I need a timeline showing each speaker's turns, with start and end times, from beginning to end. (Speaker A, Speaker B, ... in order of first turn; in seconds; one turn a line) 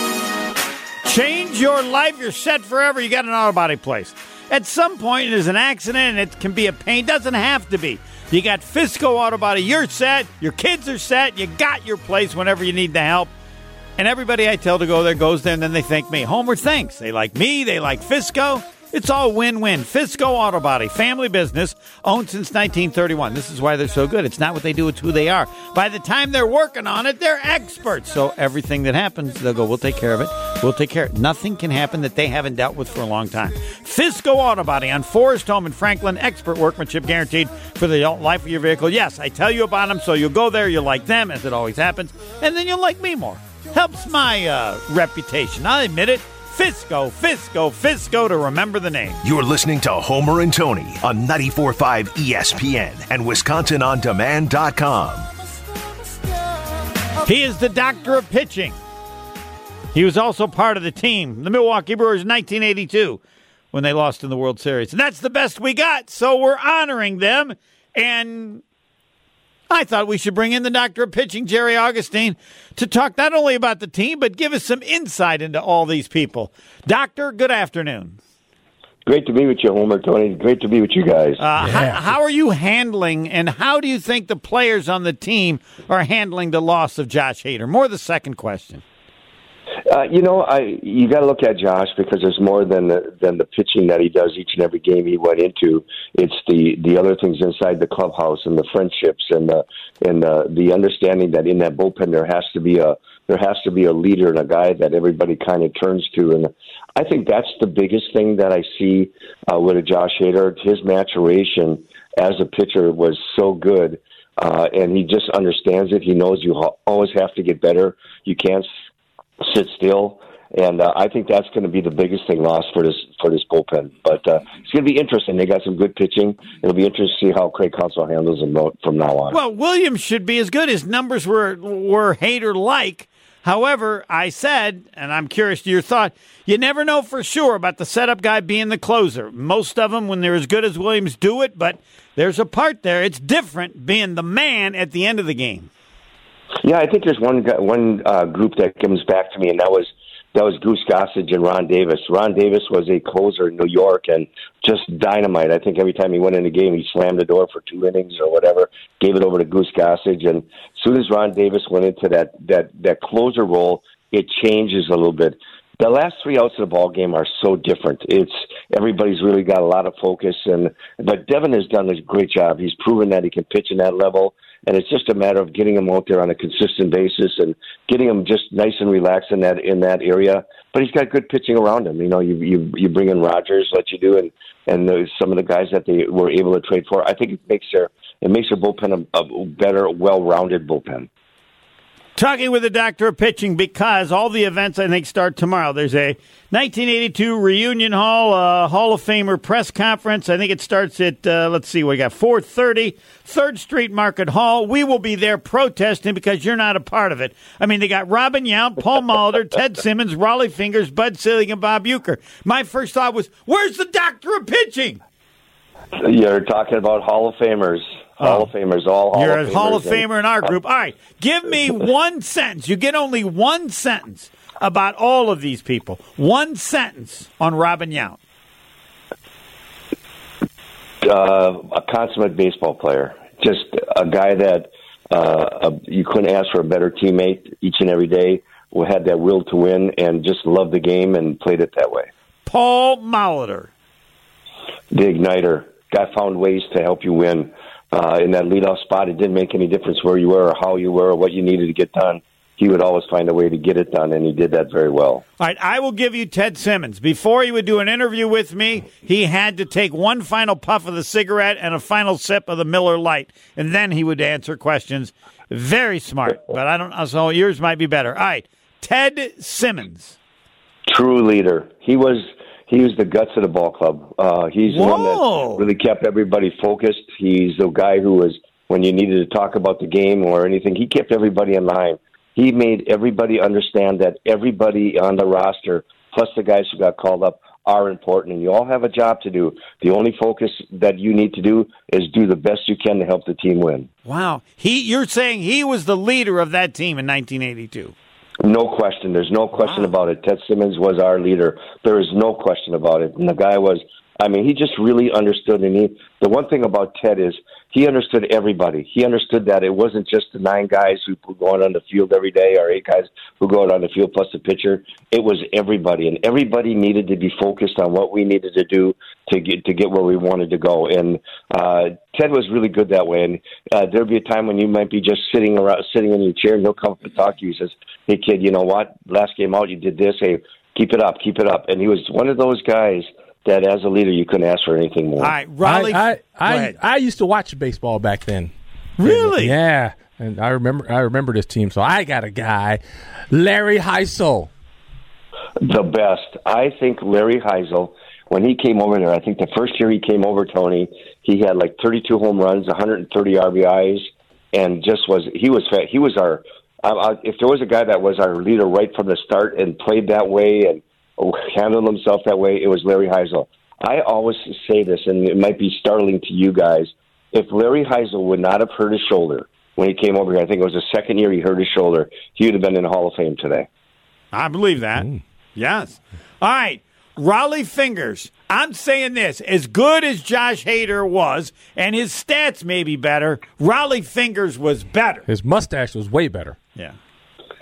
Speaker A: 1.0-13.3
Speaker A: 14.0-49.2
Speaker B: 49.2-55.3
Speaker A: 57.2-58.8
Speaker A: 59.9-63.2
Speaker A: 63.7-68.6
Speaker A: 69.7-78.2
Speaker C: 79.0-81.4
Speaker A: 81.4-88.8
Speaker D: 81.6-82.1
Speaker C: 89.9-118.7
Speaker C: 119.4-129.4
Speaker A: 129.3-145.7
Speaker C: 146.6-191.1
Speaker A: 192.2-215.0
Speaker C: 216.0-220.1
Speaker A: 218.2-218.5
Speaker A: 219.1-228.2
Speaker C: 231.0-242.1
Speaker A: 242.4-243.7
Speaker C: 244.9-255.2
Speaker A: 255.4-270.2
Speaker C: 270.9-293.9
Speaker A: 274.7-275.7
Speaker A: 294.0-297.9
Speaker C: 298.4-335.3
Speaker A: 299.6-299.9
Speaker A: 335.2-336.8
Speaker D: 335.6-344.5
Speaker A: 339.0-339.6
Speaker C: 345.6-373.7
Speaker A: 374.3-385.2
Speaker D: 385.3-386.6